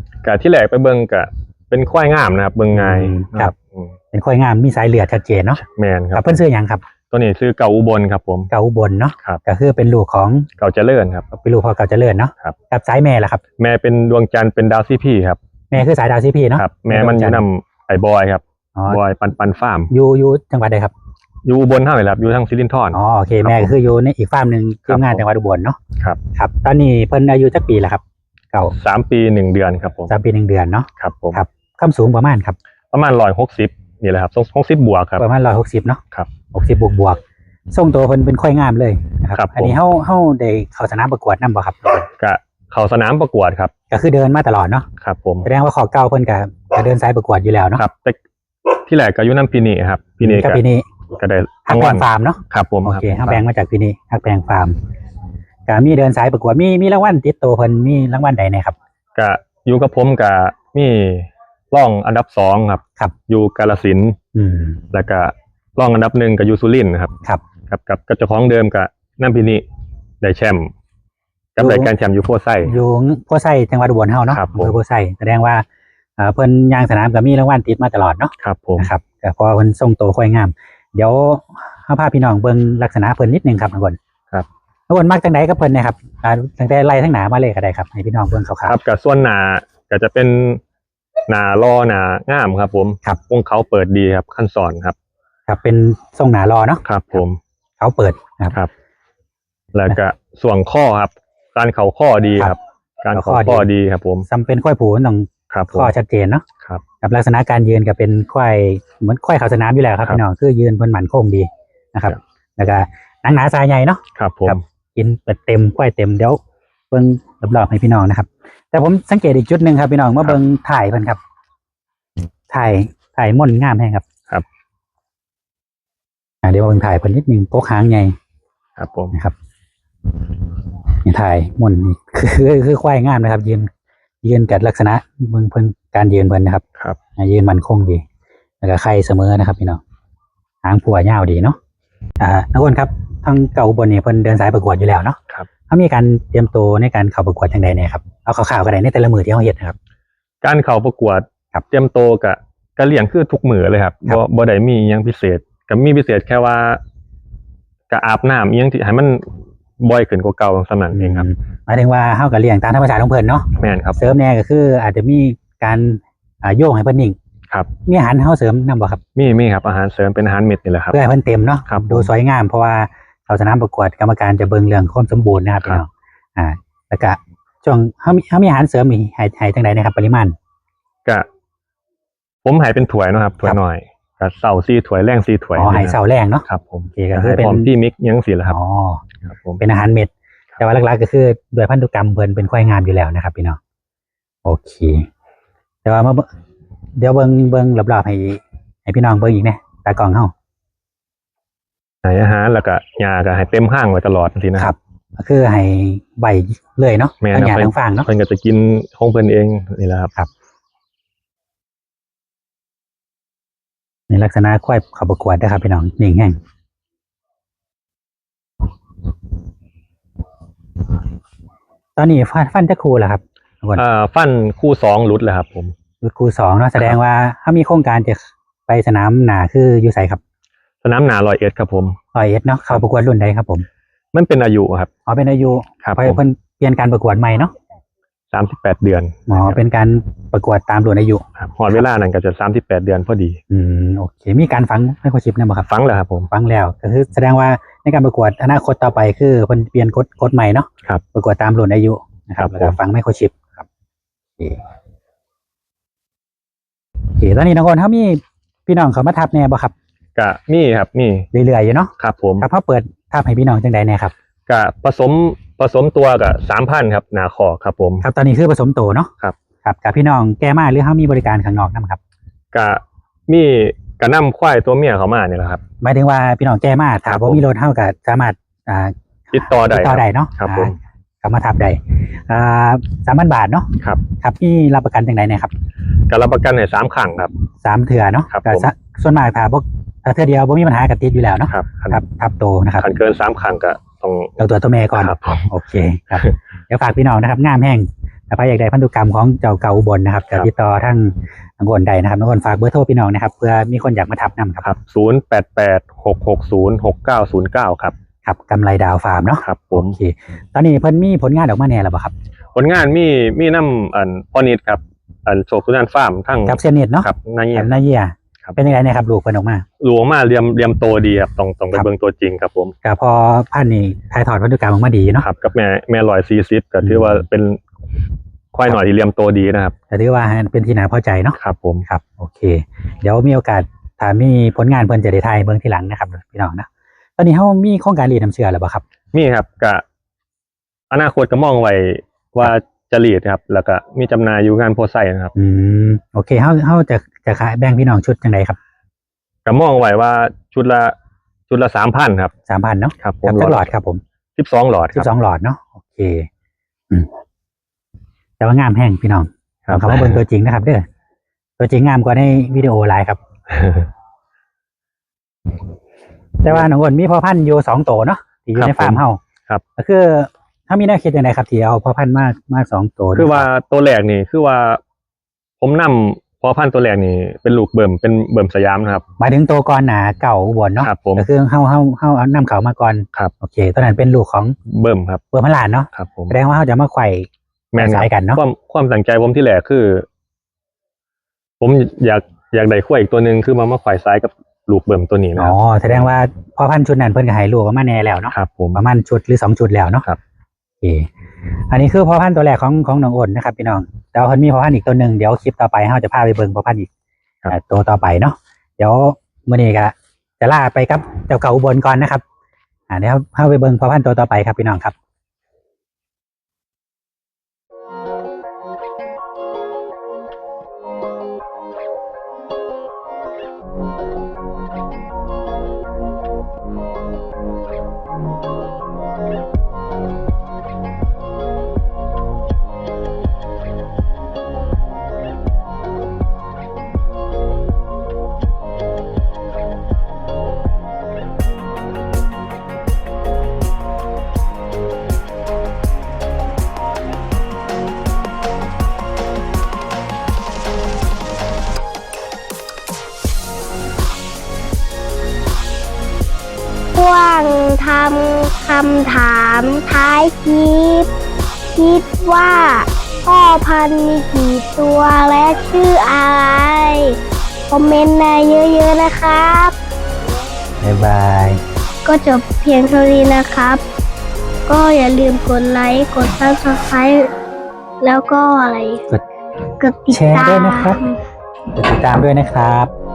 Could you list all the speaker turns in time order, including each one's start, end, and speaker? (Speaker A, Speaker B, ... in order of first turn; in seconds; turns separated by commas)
Speaker A: 0.2-4.0, Speaker B: 2.7-3.5, Speaker B: 4.1-5.6, Speaker A: 5.6-6.4, Speaker B: 6.1-6.8, Speaker A: 7.1-8.5, Speaker B: 8.5-10.5, Speaker A: 10.6-11.3, Speaker B: 11.3-13.4, Speaker A: 13.6-15.4, Speaker B: 15.7-17.5, Speaker A: 16.6-19.9, Speaker B: 18.8-19.0, Speaker B: 19.9-20.9, Speaker A: 21.4-23.7, Speaker B: 22.9-25.8, Speaker A: 24.9-25.2, Speaker B: 26.4-28.0, Speaker A: 28.8-30.1, Speaker B: 30.1-32.6, Speaker A: 31.0-31.4, Speaker A: 32.9-35.2, Speaker B: 35.2-36.0, Speaker B: 36.5-42.1, Speaker A: 39.3-39.8, Speaker A: 42.2-43.7, Speaker B: 43.9-44.9, Speaker A: 45.0-45.5, Speaker B: 45.4-47.8, Speaker A: 47.8-48.2, Speaker A: 48.7-50.6, Speaker B: 50.2-50.9, Speaker A: 51.2-53.4, Speaker B: 51.7-54.8, Speaker B: 55.7-58.8, Speaker A: 59.2-64.2, Speaker B: 64.3-64.8, Speaker A: 64.9-67.1, Speaker A: 67.7-69.6, Speaker A: 70.2-70.7, Speaker A: 71.6-72.8, Speaker B: 71.6-71.9, Speaker B: 72.6-75.7, Speaker A: 74.3-74.8, Speaker B: 76.2-84.0, Speaker A: 78.4-78.9, Speaker B: 84.9-88.8, Speaker A: 88.7-90.6, Speaker A: 91.3-95.0, Speaker B: 95.5-96.8, Speaker A: 96.8-97.4, Speaker B: 97.8-98.6, Speaker A: 99.7-104.3, Speaker B: 103.1-103.7, Speaker B: 104.3-106.4, Speaker A: 105.5-105.9, Speaker B: 107.0-116.4, Speaker A: 114.2-114.6, Speaker B: 116.9-121.2, Speaker B: 122.5-124.0, Speaker B: 126.4-128.2, Speaker A: 128.8-129.2, Speaker B: 131.0-133.7, Speaker B: 134.2-136.6, Speaker B: 137.2-138.1, Speaker B: 138.6-139.8, Speaker B: 140.6-141.6, Speaker B: 142.2-145.2, Speaker B: 145.7-149.8, Speaker A: 150.4-156.8, Speaker A: 157.9-161.3, Speaker B: 160.9-167.2, Speaker A: 163.6-164.0, Speaker B: 167.9-169.0, Speaker A: 169.2-171.0, Speaker B: 170.9-180.3, Speaker A: 171.7-172.1, Speaker A: 182.4-186.0, Speaker B: 185.6-187.7, Speaker A: 186.5-188.6, Speaker B: 188.5-189.0, Speaker A: 189.2-189.6, Speaker B: 189.6-193.6, Speaker B: 194.4-195.1, Speaker B: 195.8-196.3, Speaker B: 197.0-200.3, Speaker A: 202.0-204.7, Speaker B: 204.6-208.1, Speaker A: 207.2-210.1, Speaker B: 214.1-216.4, Speaker B: 222.0-223.8, Speaker A: 223.8-225.8, Speaker B: 226.0-230.2, Speaker A: 230.8-232.0, Speaker B: 232.1-233.7, Speaker A: 234.1-234.9, Speaker B: 235.1-237.5, Speaker A: 235.8-236.2, Speaker A: 238.3-239.6, Speaker B: 239.3-241.8, Speaker A: 241.4-243.4, Speaker B: 243.5-245.7, Speaker A: 245.7-246.3, Speaker B: 246.3-253.7, Speaker A: 252.4-252.8, Speaker B: 257.2-259.7, Speaker A: 260.2-261.3, Speaker B: 261.3-264.1, Speaker A: 262.0-262.5, Speaker A: 264.5-268.0, Speaker B: 268.0-269.1, Speaker B: 269.6-272.0, Speaker A: 272.5-275.6, Speaker B: 275.8-285.5, Speaker A: 277.1-277.4, Speaker A: 279.3-280.7, Speaker A: 286.1-287.3, Speaker B: 287.6-292.9, Speaker A: 288.3-288.7, Speaker A: 291.5-292.0, Speaker A: 292.8-295.5, Speaker B: 294.4-304.6, Speaker A: 304.6-307.9, Speaker B: 308.2-312.1, Speaker A: 309.4-310.0, Speaker A: 312.6-317.7, Speaker B: 316.5-319.6, Speaker A: 319.8-322.7, Speaker B: 322.8-325.3, Speaker A: 325.2-327.6, Speaker A: 328.5-329.8, Speaker B: 329.9-336.7, Speaker A: 331.4-331.9, Speaker B: 337.2-338.8, Speaker A: 339.1-339.8, Speaker A: 340.9-345.3, Speaker B: 345.4-348.6, Speaker A: 349.4-350.9, Speaker A: 351.5-352.3, Speaker B: 352.5-354.0, Speaker A: 353.0-353.7, Speaker A: 354.4-355.1, Speaker B: 354.9-356.3, Speaker B: 358.4-360.9, Speaker A: 359.7-360.2, Speaker B: 361.6-363.2, Speaker A: 363.5-363.9, Speaker B: 366.4-369.2, Speaker A: 368.6-369.6, Speaker B: 369.8-373.5, Speaker A: 373.1-374.8, Speaker A: 375.6-379.0, Speaker B: 379.2-384.6, Speaker A: 380.8-381.3, Speaker A: 384.7-385.2, Speaker B: 385.3-388.4, Speaker A: 385.9-386.4, Speaker A: 387.7-390.1, Speaker A: 391.6-396.1, Speaker B: 395.4-400.1, Speaker A: 398.3-398.8, Speaker B: 400.8-401.1, Speaker B: 401.7-406.9, Speaker B: 407.5-412.2, Speaker B: 412.9-414.9, Speaker C: 456.9-461.1, Speaker C: 461.8-467.2, Speaker C: 467.7-469.8, Speaker B: 470.8-471.6, Speaker C: 472.1-473.8, Speaker C: 474.7-477.3, Speaker C: 478.0-479.0, Speaker C: 479.8-481.2, Speaker B: 480.1-481.0, Speaker B: 481.7-482.9